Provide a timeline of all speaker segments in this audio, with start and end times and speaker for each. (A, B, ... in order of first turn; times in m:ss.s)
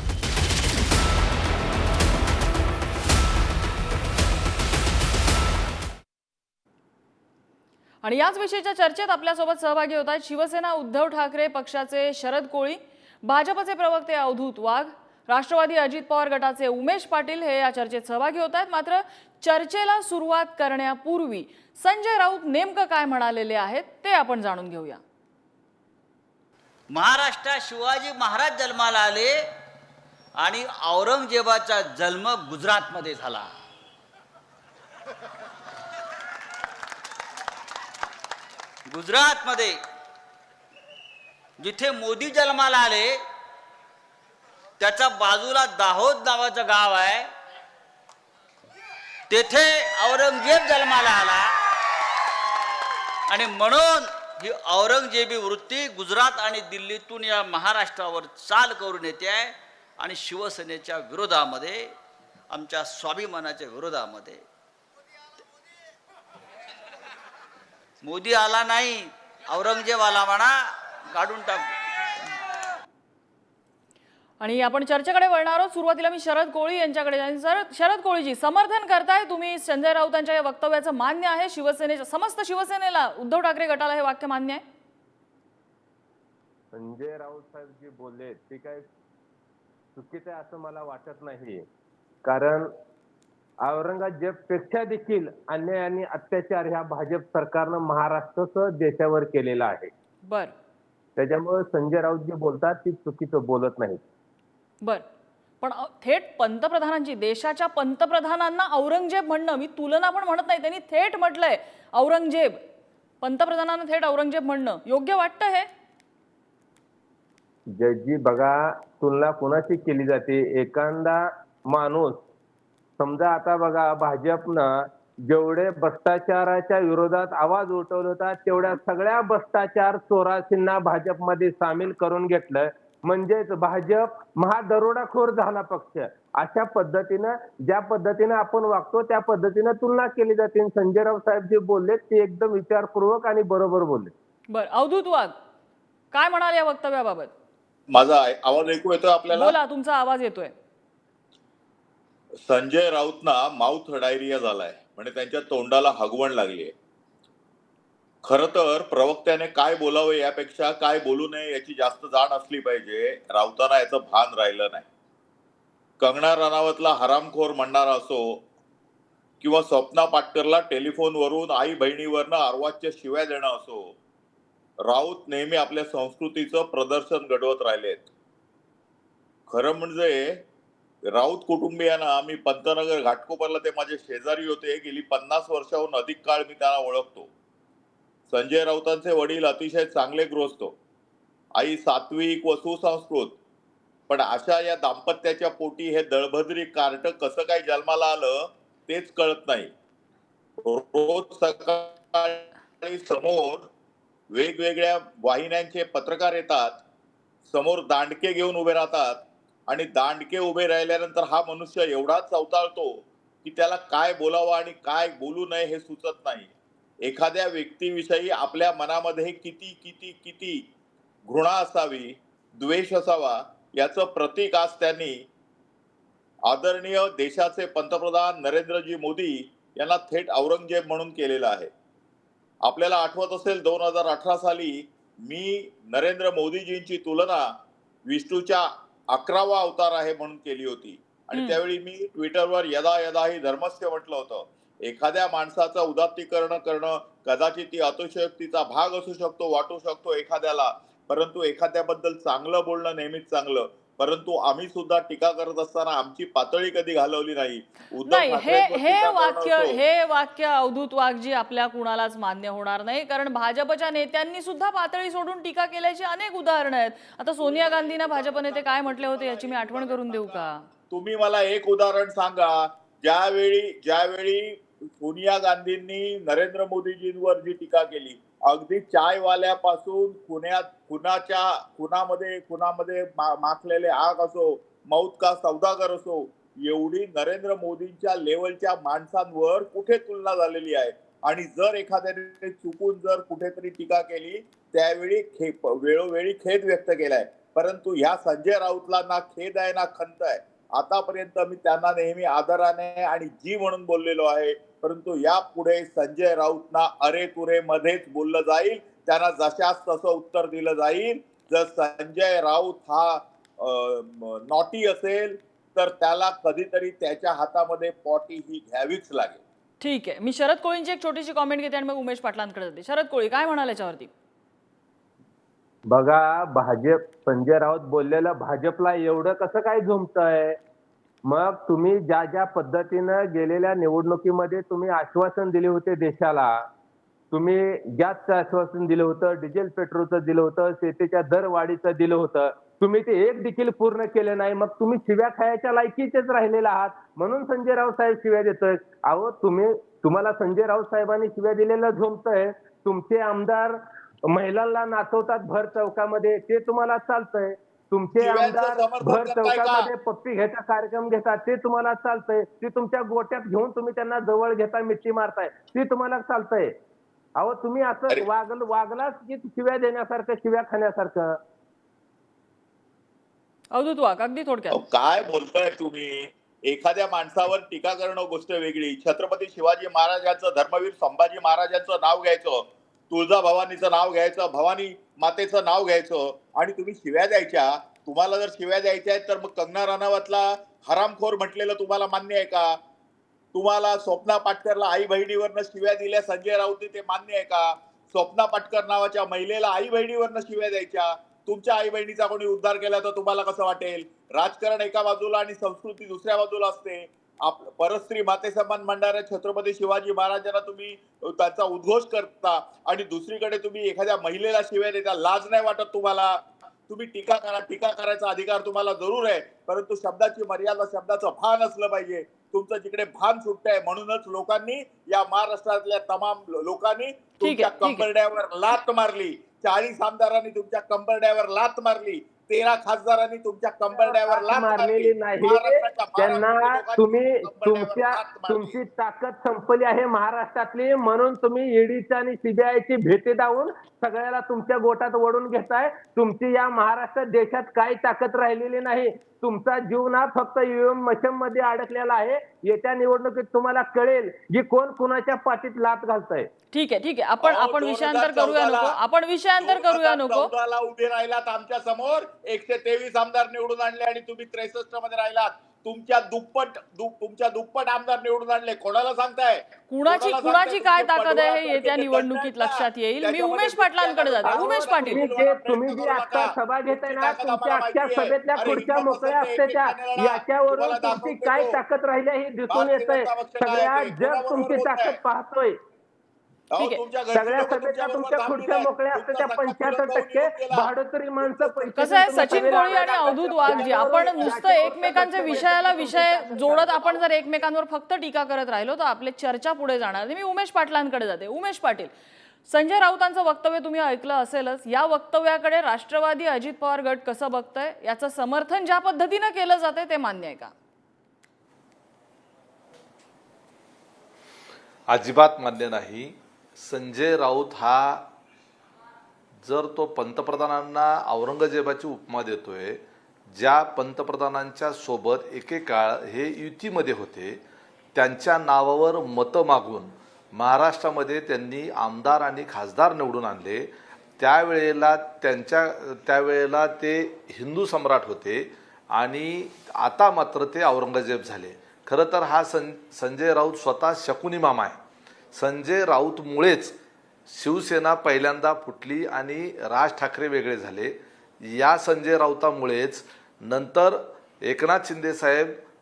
0:08.0-0:25.0 A
0:26.9-0:29.4 B
0:30.4-0:33.5 B
0:38.9-0:39.8 B
0:41.6-0:43.2 B
0:44.8-0:47.3 B
0:49.3-0:51.5 B
0:53.3-1:01.9 B
1:02.5-1:04.4 B
1:08.0-1:11.7 B
1:14.4-1:24.6 A
1:26.7-1:28.8 C
1:30.0-1:31.6 C
1:32.2-1:32.7 C
1:33.6-1:39.9 C
1:40.3-1:40.5 A
1:41.2-1:44.0 C
1:45.6-1:52.6 A
1:53.2-1:55.7 A
1:57.7-2:02.2 C
2:03.0-2:24.1 C
2:24.5-2:25.3 A
2:26.1-2:27.3 A
2:27.9-2:29.5 D
2:29.3-2:30.5 A
2:32.4-2:36.7 D
2:38.2-2:44.8 D
2:46.0-2:48.4 D
2:49.4-2:53.9 D
2:54.8-2:58.1 D
2:59.5-3:00.4 D
3:01.1-3:07.3 D
3:08.3-3:10.8 D
3:11.6-3:13.4 D
3:14.1-3:19.7 D
3:20.6-3:23.7 D
3:24.3-3:26.8 D
3:27.5-3:36.5 D
3:37.0-3:40.6 D
3:41.3-3:45.2 D
3:46.4-3:51.7 D
3:52.6-3:57.4 D
3:58.1-4:19.8 D
4:18.0-4:30.6 A
4:27.4-5:19.4 D
5:19.8-5:24.1 A
5:25.9-5:30.6 C
5:31.2-5:36.6 C
5:37.3-6:06.7 C
5:58.2-5:59.9 D
6:07.4-6:11.4 C
6:13.7-6:14.8 A
6:14.7-6:32.8 D
6:33.5-7:18.8 D
7:07.4-7:08.0 A
7:13.9-7:36.5 C
7:36.7-7:40.5 A
7:37.4-7:39.0 D
7:39.6-8:01.8 D
7:49.9-7:55.2 A
7:54.4-8:05.8 C
8:02.7-8:05.2 D
8:06.7-8:15.6 D
8:07.3-8:17.0 C
8:12.0-8:22.1 A
8:16.9-8:17.2 D
8:22.7-8:30.7 A
8:35.1-8:38.2 E
8:39.6-8:43.0 E
8:43.5-8:47.6 E
8:48.1-9:05.0 E
9:05.5-9:07.0 E
9:07.5-9:15.8 E